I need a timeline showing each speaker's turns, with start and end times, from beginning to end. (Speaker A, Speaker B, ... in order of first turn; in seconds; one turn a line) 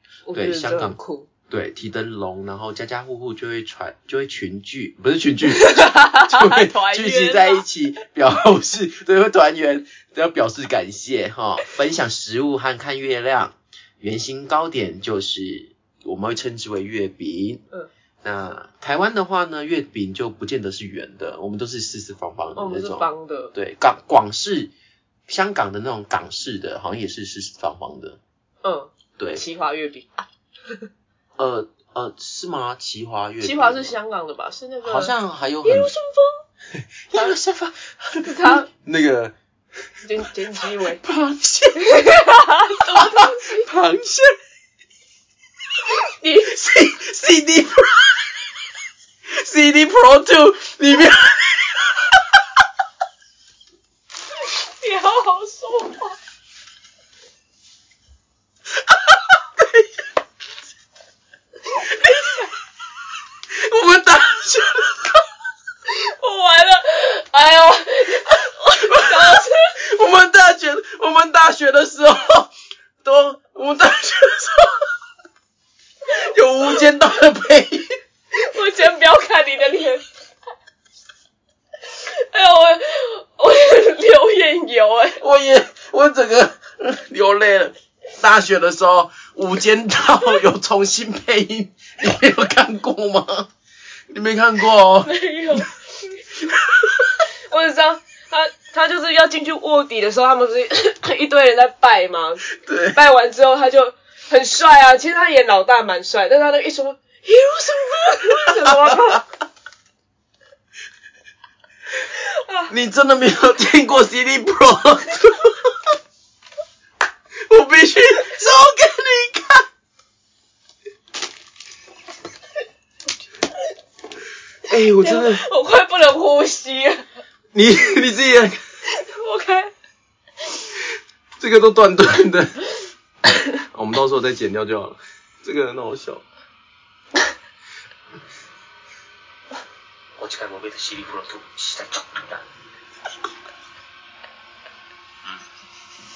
Speaker A: 0.3-1.3
Speaker B: 0.3-1.0
Speaker B: 1.5-17.6
Speaker A: 5.5-7.6
Speaker B: 18.2-24.7
Speaker A: 22.6-23.5
Speaker B: 25.3-28.2
Speaker A: 28.6-30.9
Speaker B: 29.2-29.4
Speaker B: 31.4-33.9
Speaker A: 33.4-36.4
Speaker B: 34.8-35.9
Speaker B: 36.7-39.4
Speaker A: 38.2-38.7
Speaker A: 40.0-41.0
Speaker B: 40.6-44.4
Speaker A: 41.8-43.6
Speaker A: 46.2-46.6
Speaker B: 46.4-48.4
Speaker B: 49.3-52.4
Speaker A: 54.7-56.2
Speaker B: 58.9-60.0
Speaker B: 61.8-62.5
Speaker B: 63.5-65.3
Speaker A: 65.9-69.8
Speaker B: 68.7-72.5
Speaker B: 73.0-74.9
Speaker B: 76.1-78.0
Speaker A: 78.3-80.1
Speaker A: 82.0-85.2
Speaker B: 85.2-93.5
Speaker B: 94.1-95.6
Speaker A: 95.0-96.2
Speaker B: 96.5-97.2
Speaker A: 97.5-109.2
Speaker B: 102.5-103.0
Speaker B: 108.5-109.2
Speaker A: 112.3-112.7
Speaker B: 112.7-115.9
Speaker B: 117.5-119.7
Speaker B: 124.7-125.5
Speaker A: 124.7-127.1
Speaker B: 127.5-128.6
Speaker A: 128.9-129.7
Speaker B: 131.4-132.6
Speaker B: 133.5-136.2
Speaker C: 140.2-142.5